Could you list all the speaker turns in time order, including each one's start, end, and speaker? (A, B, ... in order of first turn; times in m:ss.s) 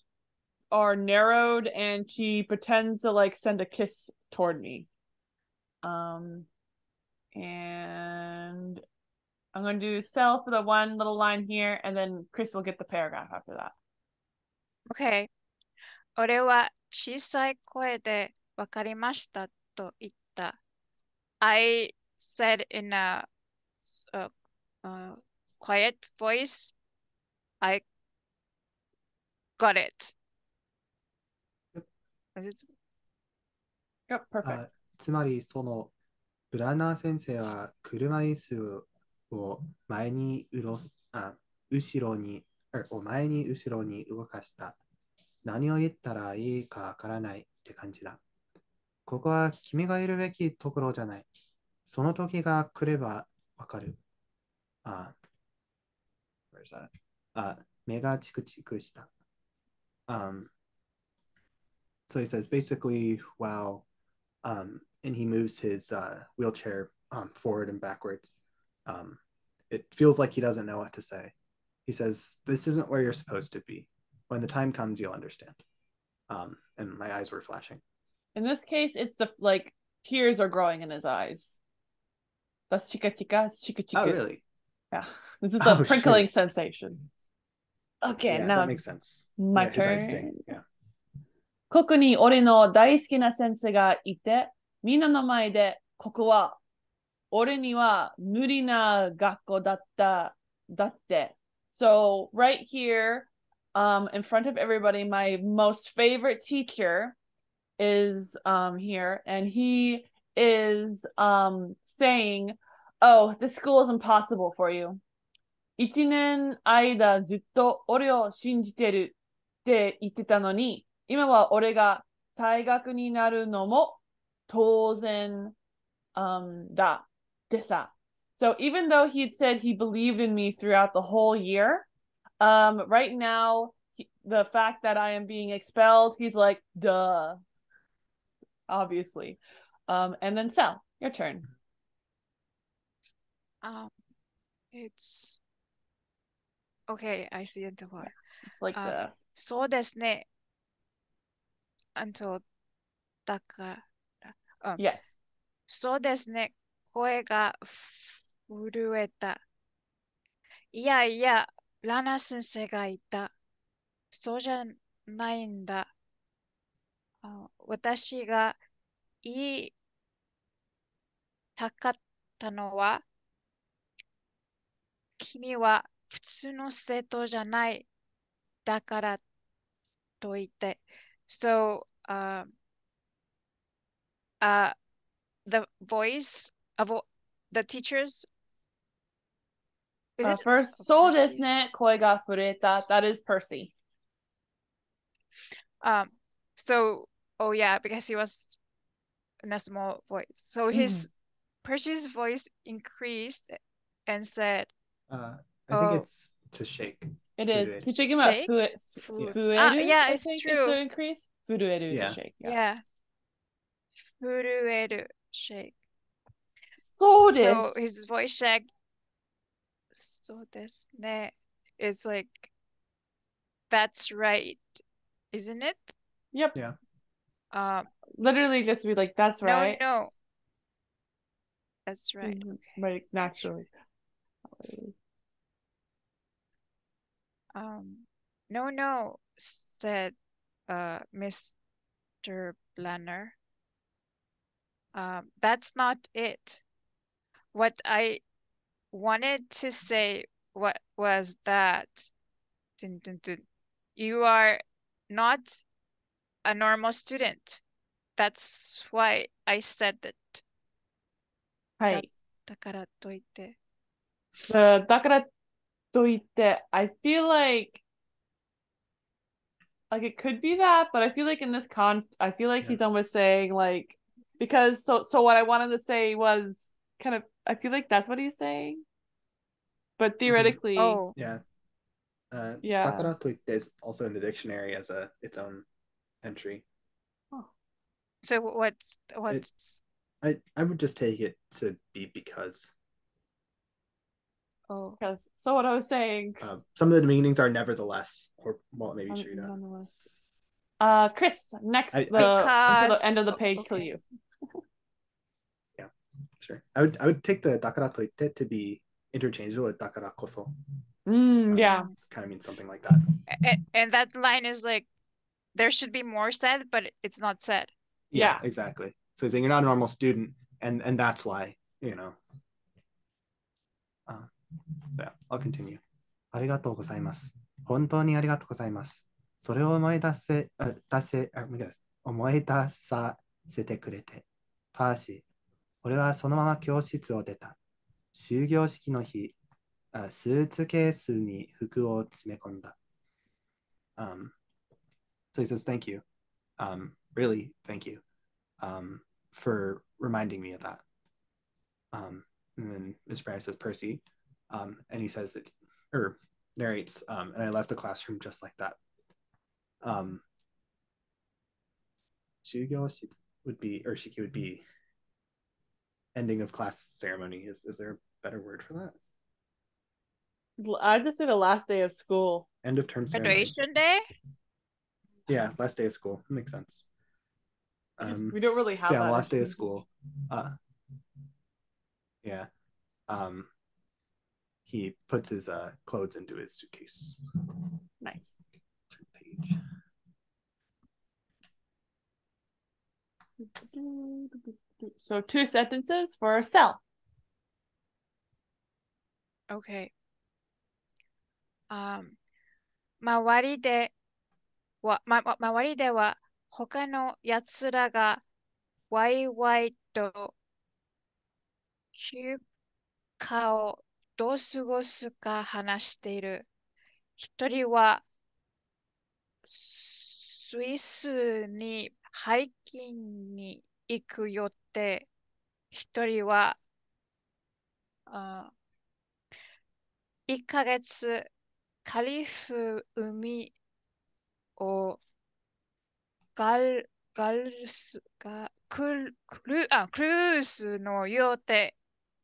0:00.7-0:04.9 A
0:05.8-0:06.5 A
0:07.3-0:08.8 A
0:09.5-0:13.7 A
0:14.9-0:15.3 B
0:16.2-0:20.6 B
0:21.4-0:23.2 B
0:23.8-0:24.3 B
0:24.8-0:26.7 B
0:29.6-0:30.1 B
0:32.4-0:32.6 B
0:34.1-0:34.6 A
0:34.4-0:35.9 C
0:36.5-0:44.8 C
0:45.4-0:48.2 C
0:49.0-0:51.3 C
0:51.8-0:54.0 C
0:54.8-0:55.1 C
0:56.5-0:59.1 C
1:00.1-1:00.5 C
1:02.1-1:03.8 C
1:04.4-1:08.3 C
1:08.9-1:09.2 C
1:09.7-1:11.3 C
1:11.8-1:15.6 C
1:16.3-1:17.8 C
1:18.3-1:21.6 A
1:22.7-1:24.2 A
1:23.9-1:24.4 C
1:24.9-1:27.0 A
1:25.6-1:26.2 C
1:28.0-1:28.8 A
1:28.0-1:30.6 C
1:29.4-1:30.5 A
1:31.7-1:36.6 A
1:37.3-1:47.2 A
1:47.8-1:55.0 A
1:55.8-1:59.1 A
1:59.6-2:05.5 A
2:06.2-2:11.8 A
2:12.4-2:17.4 A
2:18.7-2:21.5 A
2:23.6-2:23.9 B
2:24.7-2:25.4 B
2:26.9-2:28.1 B
2:28.4-2:29.1 A
2:28.7-2:30.2 B
2:32.0-2:32.4 B
2:33.2-2:33.8 B
2:34.8-2:35.2 A
2:35.7-2:39.4 B
2:40.7-2:43.3 B
2:44.1-2:45.9 B
2:47.2-2:48.6 B
2:49.2-2:49.7 B
2:51.6-2:53.0 B
2:55.2-2:57.8 B
2:58.6-2:59.2 B
3:00.2-3:02.5 B
3:04.4-3:04.7 B
3:05.4-3:08.3 B
3:10.2-3:11.6 B
3:10.2-3:13.7 A
3:15.8-3:18.6 B
3:19.4-3:21.1 B
3:20.7-3:21.0 A
3:21.6-3:23.6 B
3:24.1-3:24.7 B
3:25.1-3:27.9 C
3:25.7-3:26.0 B
3:27.4-3:32.6 A
3:27.9-3:30.8 B
3:31.9-3:32.2 C
3:32.4-3:32.8 B
3:34.0-3:35.7 B
3:36.8-3:37.8 A
3:37.1-3:38.7 B
3:39.9-3:42.5 B
3:43.7-3:44.6 B
3:45.3-3:45.9 B
3:47.5-3:47.9 B
3:48.2-3:49.8 A
3:49.4-3:50.1 B
3:51.9-3:53.5 B
3:52.2-3:53.7 A
3:54.5-3:54.9 A
3:57.5-4:00.1 B
4:00.7-4:01.5 B
4:02.2-4:03.3 B
4:04.9-4:06.6 B
4:07.5-4:08.2 B
4:08.9-4:12.1 B
4:12.8-4:13.4 B
4:14.0-4:15.6 B
4:16.4-4:17.6 B
4:18.2-4:20.4 B
4:21.8-4:22.0 A
4:21.9-4:23.6 B
4:24.5-4:25.3 A
4:25.9-4:27.8 A
4:29.9-4:38.8 A
4:40.0-4:41.0 A
4:40.3-4:40.6 C
4:40.8-4:41.1 B
4:41.2-4:41.4 C
4:42.3-4:45.6 C
4:42.6-4:43.1 A
4:46.2-4:46.6 C
4:48.2-4:49.8 B
4:50.2-4:52.7 C
4:54.7-4:55.0 B
4:55.0-4:56.4 A
4:56.4-4:59.5 C
4:59.1-5:00.0 A
5:00.8-5:04.0 A
5:01.9-5:02.4 C
5:02.1-5:03.9 B
5:05.8-5:10.5 C
5:11.1-5:11.9 A
5:11.5-5:13.2 C
5:13.3-5:14.9 B
5:15.5-5:17.7 B
5:18.1-5:22.2 C
5:18.1-5:18.4 A
5:24.9-5:25.8 C
5:26.3-5:35.2 C
5:35.8-5:37.6 C
5:38.1-5:39.4 C
5:39.9-5:42.7 C
5:44.0-5:44.3 C
5:45.3-5:46.0 C
5:46.6-5:48.0 C
5:48.6-5:50.8 C
5:51.9-5:58.8 C
5:59.8-6:00.2 C
6:02.4-6:04.6 C
6:06.1-6:09.0 C
6:10.6-6:12.4 A
6:12.6-6:13.5 C
6:13.1-6:14.0 B
6:15.3-6:16.8 C
6:18.0-6:20.5 C
6:18.0-6:19.8 A
6:22.2-6:22.5 C
6:23.1-6:23.5 C
6:24.6-6:27.6 C
6:28.0-6:28.4 A
6:28.9-6:29.6 C
6:33.6-6:36.8 A
6:39.5-6:39.9 B
6:41.7-6:42.2 B
6:43.0-6:43.9 B
6:44.8-6:48.2 B
6:48.9-6:50.3 B
6:51.9-6:52.4 B
6:53.2-6:56.5 B
6:57.2-6:58.0 B
6:59.4-7:05.1 B
7:05.7-7:06.6 B
7:08.1-7:08.5 B
7:10.3-7:11.3 B
7:11.8-7:13.5 B
7:14.6-7:15.0 B
7:16.4-7:21.7 B